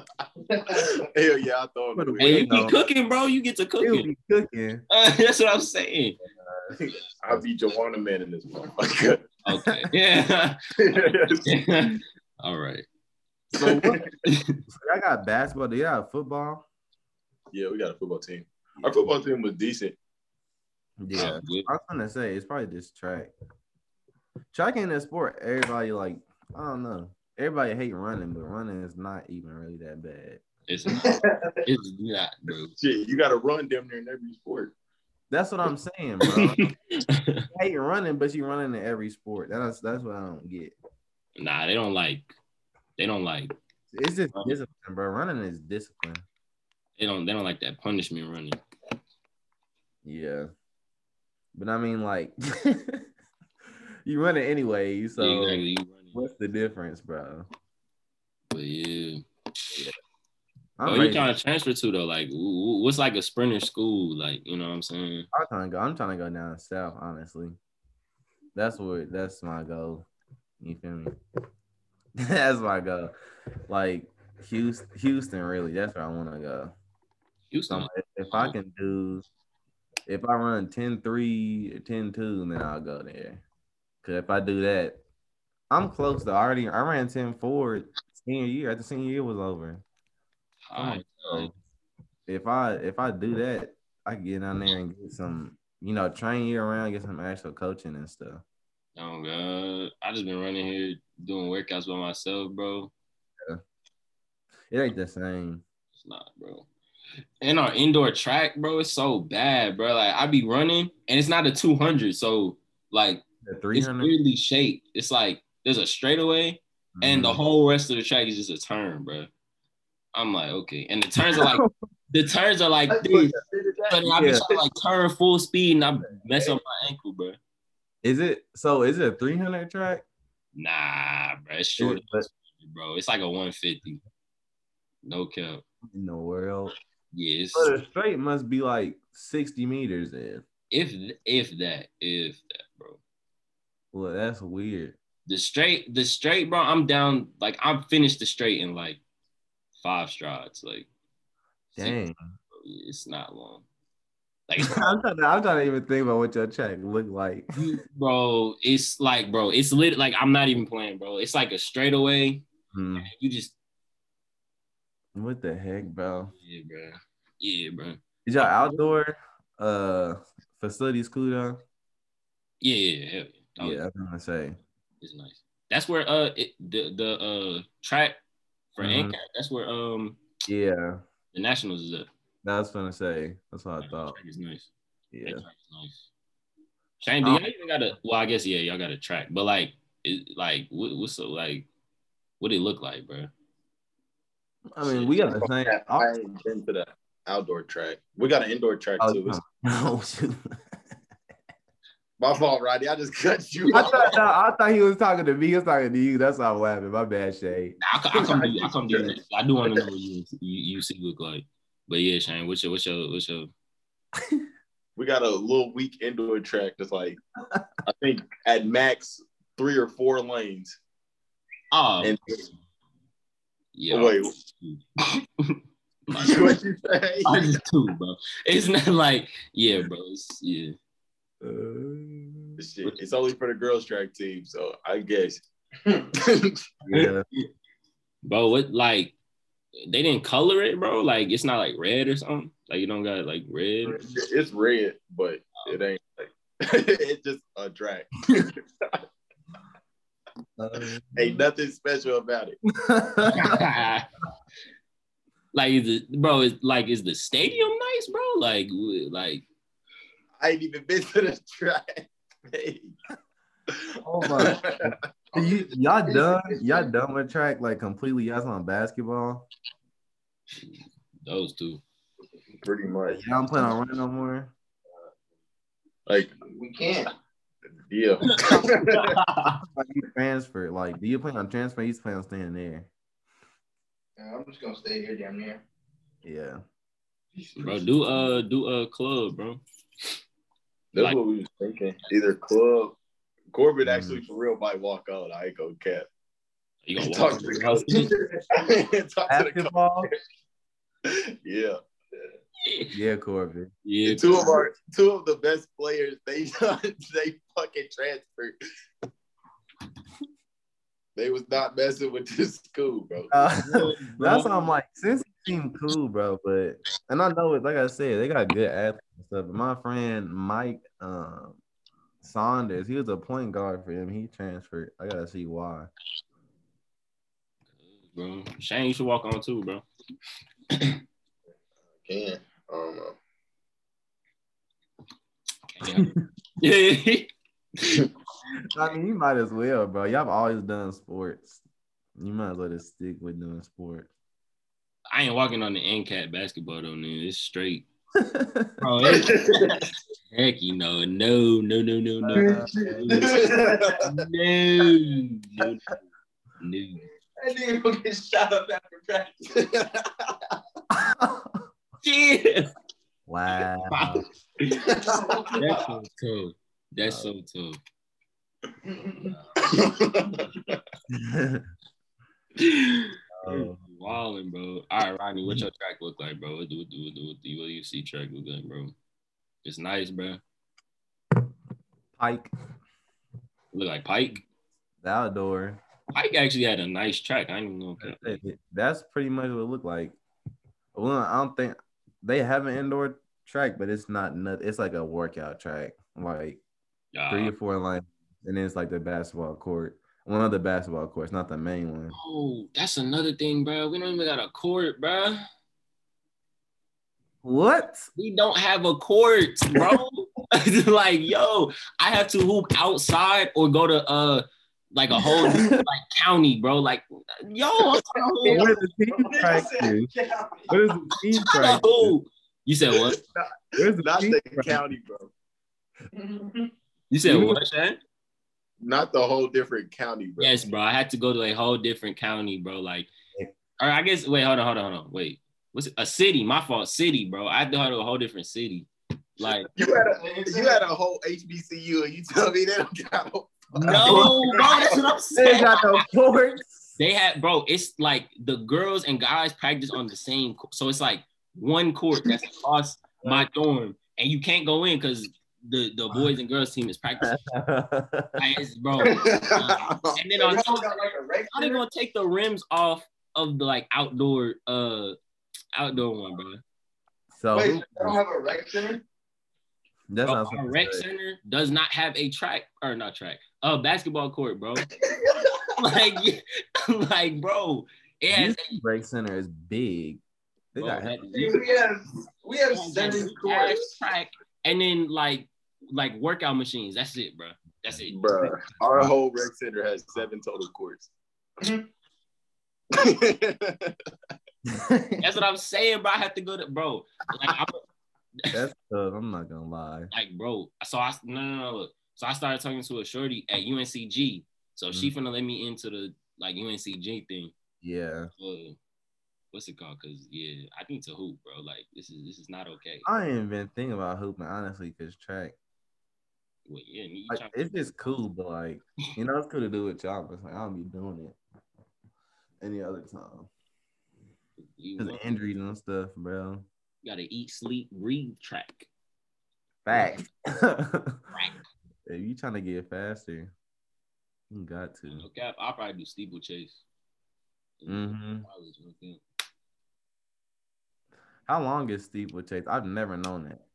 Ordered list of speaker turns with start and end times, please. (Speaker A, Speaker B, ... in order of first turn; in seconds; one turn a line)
Speaker A: 0.5-1.0
Speaker B: 0.7-2.5
Speaker C: 1.9-2.8
Speaker D: 2.2-4.1
Speaker C: 3.8-4.8
Speaker D: 4.9-6.2
Speaker C: 6.4-7.5
Speaker B: 7.2-9.2
Speaker D: 9.5-12.9
Speaker B: 10.8-11.5
Speaker C: 13.6-14.0
Speaker B: 13.6-14.0
Speaker D: 14.2-14.6
Speaker C: 14.7-16.6
Speaker B: 17.5-20.0
Speaker C: 21.0-23.3
Speaker D: 21.1-21.7
Speaker C: 24.5-30.4
Speaker D: 30.7-32.7
Speaker A: 30.9-31.6
Speaker B: 32.8-34.7
Speaker C: 35.3-36.6
Speaker D: 36.3-37.5
Speaker C: 37.5-40.7
Speaker D: 41.4-42.3
Speaker D: 43.0-43.5
Speaker C: 43.9-46.2
Speaker D: 47.0-48.6
Speaker C: 50.0-50.5
Speaker C: 51.5-53.0
Speaker C: 54.1-57.5
Speaker D: 55.2-56.2
Speaker D: 58.5-59.2
Speaker C: 60.8-61.3
Speaker D: 60.9-65.3
Speaker C: 65.3-67.6
Speaker C: 68.5-70.1
Speaker C: 70.6-71.1
Speaker C: 72.2-73.1
Speaker C: 73.7-76.7
Speaker D: 77.5-78.6
Speaker C: 77.7-79.2
Speaker C: 80.1-83.4
Speaker C: 84.0-85.0
Speaker C: 85.7-89.8
Speaker D: 90.7-91.5
Speaker C: 90.8-91.5
Speaker C: 92.3-98.4
Speaker D: 99.0-102.9
Speaker C: 104.7-105.6
Speaker D: 106.0-106.7
Speaker D: 107.4-119.3
Speaker C: 113.4-114.1
Speaker C: 117.0-117.4
Speaker D: 120.2-123.3
Speaker C: 121.3-121.7
Speaker A: 122.9-124.0
Speaker D: 123.9-127.4
Speaker C: 124.1-124.5
Speaker C: 128.0-130.0
Speaker D: 130.6-134.0
Speaker C: 131.8-132.3
Speaker D: 135.0-135.6
Speaker C: 135.9-136.7
Speaker D: 137.1-137.7
Speaker C: 137.5-140.4
Speaker D: 140.7-143.0
Speaker C: 143.9-145.0
Speaker D: 145.3-149.0
Speaker D: 149.8-150.9
Speaker D: 151.7-152.0
Speaker C: 151.8-152.2
Speaker D: 152.5-153.7
Speaker D: 154.5-155.0
Speaker C: 154.6-157.5
Speaker D: 157.6-162.4
Speaker C: 162.7-163.1
Speaker D: 163.0-163.6
Speaker C: 165.2-166.3
Speaker D: 166.4-168.8
Speaker C: 168.2-171.6
Speaker D: 172.6-173.8
Speaker C: 173.6-174.6
Speaker D: 175.0-178.2
Speaker D: 178.8-180.2
Speaker C: 178.8-179.2
Speaker C: 180.5-181.0
Speaker D: 181.3-182.1
Speaker C: 182.4-184.2
Speaker D: 183.8-184.7
Speaker C: 185.1-185.4
Speaker D: 185.2-186.0
Speaker D: 187.0-191.7
Speaker D: 192.4-193.3
Speaker C: 194.7-196.1
Speaker D: 194.8-195.2
Speaker B: 195.4-199.4
Speaker C: 199.0-200.5
Speaker B: 202.2-204.2
Speaker C: 203.7-207.8
Speaker D: 207.8-213.5
Speaker B: 208.2-208.7
Speaker B: 215.0-217.2
Speaker B: 217.8-220.8
Speaker D: 221.7-222.4
Speaker B: 222.0-222.5
Speaker D: 223.8-224.8
Speaker B: 223.9-224.3
Speaker D: 225.4-226.6
Speaker B: 226.2-227.4
Speaker D: 227.2-230.8
Speaker C: 231.4-232.6
Speaker B: 232.6-235.4
Speaker B: 236.1-236.5
Speaker C: 236.8-237.2
Speaker D: 238.2-239.2
Speaker D: 239.9-244.0
Speaker B: 243.9-248.5
Speaker C: 250.6-251.4
Speaker B: 251.2-252.6
Speaker C: 252.8-253.6
Speaker D: 253.3-254.1
Speaker D: 255.5-259.4
Speaker B: 260.4-262.9
Speaker B: 263.7-264.9
Speaker C: 264.0-269.5
Speaker A: 265.3-266.9
Speaker D: 270.6-271.8
Speaker B: 272.6-273.2
Speaker C: 273.1-274.5
Speaker B: 276.1-276.4
Speaker A: 276.4-277.1
Speaker B: 277.9-279.1
Speaker D: 278.3-279.6
Speaker C: 279.6-282.9
Speaker A: 284.2-285.6
Speaker C: 286.2-286.6
Speaker B: 287.4-287.9
Speaker D: 287.6-289.6
Speaker B: 290.9-293.0
Speaker B: 293.5-296.1
Speaker C: 293.8-294.2
Speaker D: 296.8-298.1
Speaker B: 297.0-299.7
Speaker C: 299.3-300.1
Speaker B: 301.1-301.8
Speaker D: 302.6-302.9
Speaker C: 302.9-303.7
Speaker D: 303.9-304.5
Speaker B: 304.1-308.6
Speaker B: 311.2-313.3
Speaker C: 313.3-321.6
Speaker D: 313.6-314.5
Speaker C: 322.2-325.9
Speaker D: 327.8-329.9
Speaker B: 332.0-333.2
Speaker D: 335.7-337.3
Speaker C: 338.7-341.6
Speaker C: 342.2-344.1
Speaker D: 345.1-347.9
Speaker C: 348.2-348.7
Speaker D: 348.8-349.6
Speaker A: 349.0-349.6
Speaker D: 350.3-353.4
Speaker C: 352.3-353.1
Speaker A: 352.3-354.0
Speaker B: 353.1-354.0
Speaker D: 354.0-355.9
Speaker D: 356.6-357.0
Speaker A: 357.4-359.9
Speaker C: 360.9-361.6
Speaker D: 362.0-362.7
Speaker C: 363.3-364.2
Speaker D: 363.9-364.9
Speaker A: 364.9-365.6
Speaker D: 365.6-367.8
Speaker C: 367.0-367.3
Speaker A: 368.9-369.3
Speaker B: 369.6-370.8
Speaker C: 371.1-371.6
Speaker D: 372.6-378.9
Speaker C: 373.4-373.8
Speaker D: 379.6-380.4
Speaker C: 382.2-382.5
Speaker D: 383.7-384.4
Speaker C: 385.0-385.8
Speaker D: 386.1-388.4
Speaker C: 388.0-390.2
Speaker C: 390.9-396.6
Speaker D: 397.1-397.5
Speaker C: 397.3-402.1
Speaker D: 402.1-405.4
Speaker C: 407.4-408.1
Speaker D: 408.2-418.7
Speaker C: 415.2-415.8
Speaker A: 418.4-420.8
Speaker C: 418.4-420.1
Speaker C: 420.7-422.1
Speaker D: 421.4-423.2
Speaker C: 423.8-424.8
Speaker B: 423.8-425.3
Speaker A: 426.1-426.7
Speaker D: 427.1-428.0
Speaker C: 427.2-427.6
Speaker B: 428.8-430.6
Speaker D: 430.4-433.1
Speaker D: 433.8-439.7
Speaker B: 439.8-444.9
Speaker A: 439.8-440.8
Speaker C: 443.8-444.4
Speaker D: 443.8-446.0
Speaker C: 445.4-446.9
Speaker D: 447.0-457.4
Speaker C: 457.2-458.4
Speaker D: 458.4-460.9
Speaker A: 459.0-459.5
Speaker B: 459.1-460.1
Speaker A: 460.3-461.8
Speaker D: 461.5-465.2
Speaker D: 465.8-466.6
Speaker C: 467.3-468.2
Speaker A: 467.5-469.0
Speaker C: 470.1-471.0
Speaker D: 470.2-474.9
Speaker A: 475.2-475.5
Speaker D: 475.8-478.8
Speaker C: 478.3-480.2
Speaker C: 480.7-481.6
Speaker D: 480.8-481.6
Speaker A: 481.3-483.8
Speaker D: 482.7-488.2
Speaker B: 488.1-491.1
Speaker B: 492.9-493.9
Speaker C: 494.7-495.2
Speaker D: 495.2-497.8
Speaker C: 498.5-500.1
Speaker D: 500.1-507.5
Speaker C: 507.8-508.3
Speaker D: 508.4-508.8
Speaker D: 509.5-513.1
Speaker C: 513.0-515.5
Speaker D: 516.7-518.2
Speaker C: 517.3-521.4
Speaker C: 522.6-523.5
Speaker D: 524.8-525.3
Speaker C: 525.0-526.7
Speaker D: 527.0-528.9
Speaker C: 529.9-531.2
Speaker C: 532.1-533.5
Speaker C: 534.5-535.2
Speaker D: 535.1-536.8
Speaker D: 537.8-539.2
Speaker C: 537.9-538.5
Speaker C: 541.5-543.6